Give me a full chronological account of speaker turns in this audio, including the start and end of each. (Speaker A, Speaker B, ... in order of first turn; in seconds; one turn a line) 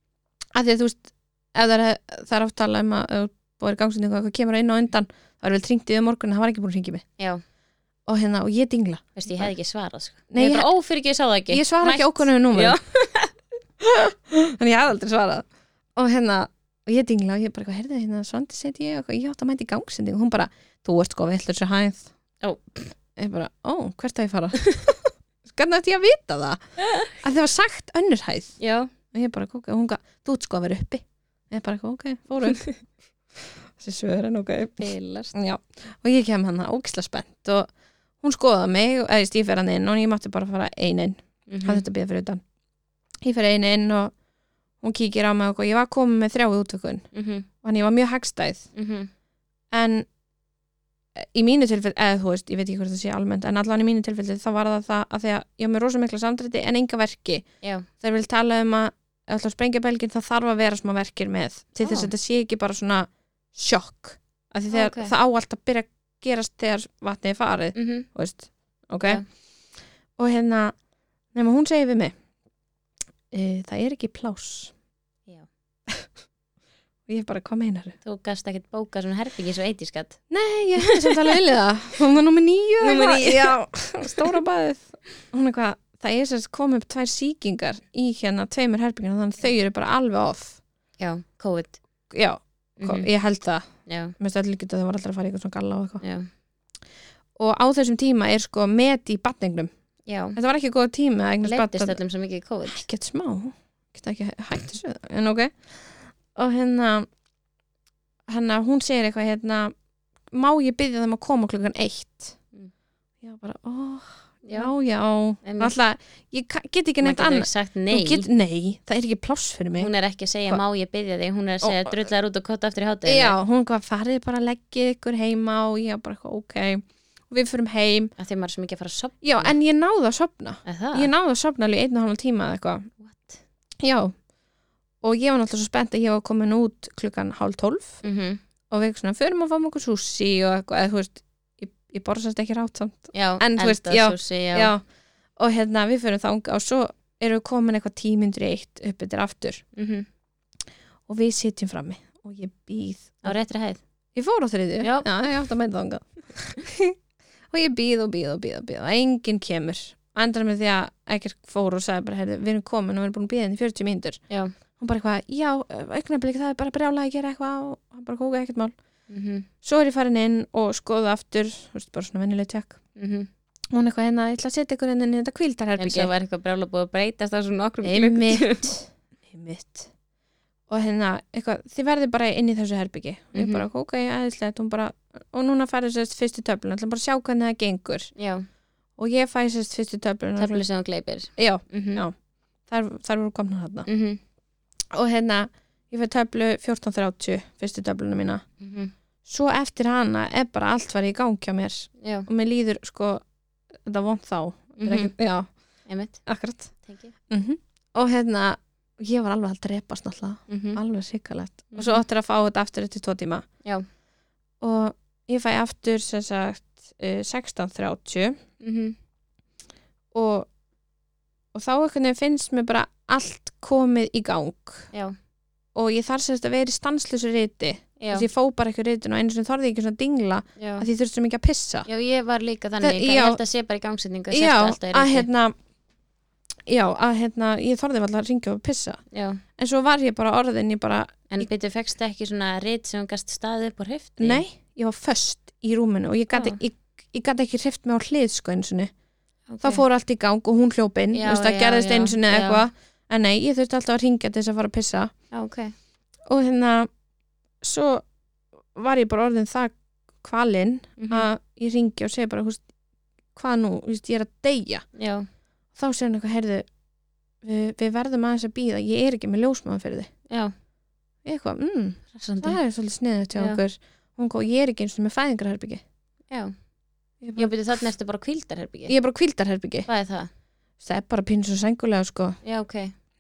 Speaker A: 0.6-7.0
Speaker A: 8.1-9.5
Speaker B: 9.2-13.3
Speaker A: 10.3-10.7
Speaker A: 11.5-12.8
Speaker A: 13.8-22.1
Speaker B: 22.4-22.9
Speaker A: 23.2-28.6
Speaker B: 28.6-28.9
Speaker A: 29.1-32.7
Speaker A: 33.8-37.7
Speaker B: 34.8-35.4
Speaker A: 38.2-42.4
Speaker B: 41.5-41.8
Speaker A: 43.2-44.1
Speaker A: 44.8-47.1
Speaker B: 47.1-47.5
Speaker A: 47.6-48.7
Speaker B: 48.8-49.1
Speaker A: 49.7-50.1
Speaker A: 51.2-57.5
Speaker B: 57.6-57.9
Speaker A: 58.0-69.2
Speaker B: 61.8-62.1
Speaker B: 64.7-65.1
Speaker B: 67.8-68.1
Speaker A: 70.2-70.8
Speaker A: 71.3-72.1
Speaker A: 73.3-74.7
Speaker A: 77.1-78.0
Speaker B: 78.0-80.2
Speaker A: 80.3-90.6
Speaker B: 80.8-81.4
Speaker B: 82.8-84.4
Speaker B: 91.0-91.8
Speaker A: 92.1-93.7
Speaker B: 92.8-93.1
Speaker B: 93.9-94.1
Speaker A: 94.2-96.0
Speaker B: 96.0-96.3
Speaker A: 97.4-99.7
Speaker B: 100.1-100.4
Speaker A: 100.4-102.0
Speaker B: 101.4-102.8
Speaker A: 102.7-107.1
Speaker A: 108.3-109.7
Speaker A: 110.3-112.4
Speaker A: 113.2-119.9
Speaker B: 114.5-114.7
Speaker B: 115.4-115.7
Speaker B: 117.0-118.3
Speaker B: 119.8-123.4
Speaker A: 121.6-122.0
Speaker A: 123.1-128.1
Speaker B: 128.2-129.6
Speaker A: 129.2-132.9
Speaker B: 130.7-131.1
Speaker B: 133.0-133.4
Speaker A: 133.8-134.1
Speaker A: 135.0-138.0
Speaker B: 138.0-138.4
Speaker A: 138.7-144.8
Speaker B: 143.1-144.7
Speaker A: 145.4-149.6
Speaker B: 149.8-150.1
Speaker A: 151.1-153.4
Speaker B: 153.2-153.8
Speaker A: 154.2-156.9
Speaker B: 154.8-155.1
Speaker A: 157.5-164.2
Speaker A: 164.8-168.7
Speaker B: 169.1-169.5
Speaker A: 169.6-172.8
Speaker B: 173.0-173.3
Speaker A: 173.7-176.1
Speaker B: 175.8-178.7
Speaker A: 177.8-179.9
Speaker A: 180.7-188.1
Speaker B: 183.3-183.7
Speaker B: 188.2-188.5
Speaker A: 189.0-190.6
Speaker B: 190.4-192.0
Speaker A: 191.4-192.1
Speaker A: 192.7-193.9
Speaker B: 193.9-194.2
Speaker A: 194.9-198.4
Speaker B: 198.6-198.9
Speaker A: 199.3-203.2
Speaker B: 202.0-202.3
Speaker A: 203.8-205.5
Speaker B: 204.8-205.1
Speaker B: 205.9-206.2
Speaker A: 206.3-206.7
Speaker B: 206.8-207.1
Speaker A: 207.3-213.5
Speaker B: 210.5-210.8
Speaker B: 211.7-212.0
Speaker A: 214.6-218.4
Speaker B: 218.6-218.9
Speaker A: 220.1-220.5
Speaker A: 221.5-224.9
Speaker A: 225.8-231.9
Speaker B: 228.0-228.3
Speaker B: 230.6-230.9
Speaker B: 231.9-235.3
Speaker A: 232.8-233.4
Speaker A: 234.3-235.6
Speaker A: 236.7-239.0
Speaker B: 239.1-239.4
Speaker A: 239.6-241.5
Speaker B: 241.3-244.4
Speaker A: 244.2-248.9
Speaker B: 246.3-246.6
Speaker B: 249.5-249.8
Speaker A: 249.6-255.1
Speaker B: 251.1-252.6
Speaker B: 255.3-255.7
Speaker A: 256.3-256.9
Speaker A: 257.6-258.1
Speaker A: 258.7-262.6
Speaker B: 261.0-261.3
Speaker A: 263.4-264.9
Speaker B: 265.0-265.3
Speaker A: 265.8-266.7
Speaker A: 267.4-270.1
Speaker A: 271.2-275.8
Speaker B: 272.1-272.6
Speaker B: 273.4-273.6
Speaker B: 276.3-276.6
Speaker A: 277.2-277.5
Speaker B: 277.4-278.9
Speaker A: 278.9-279.9
Speaker B: 279.9-280.3
Speaker A: 280.8-282.4
Speaker B: 282.4-282.9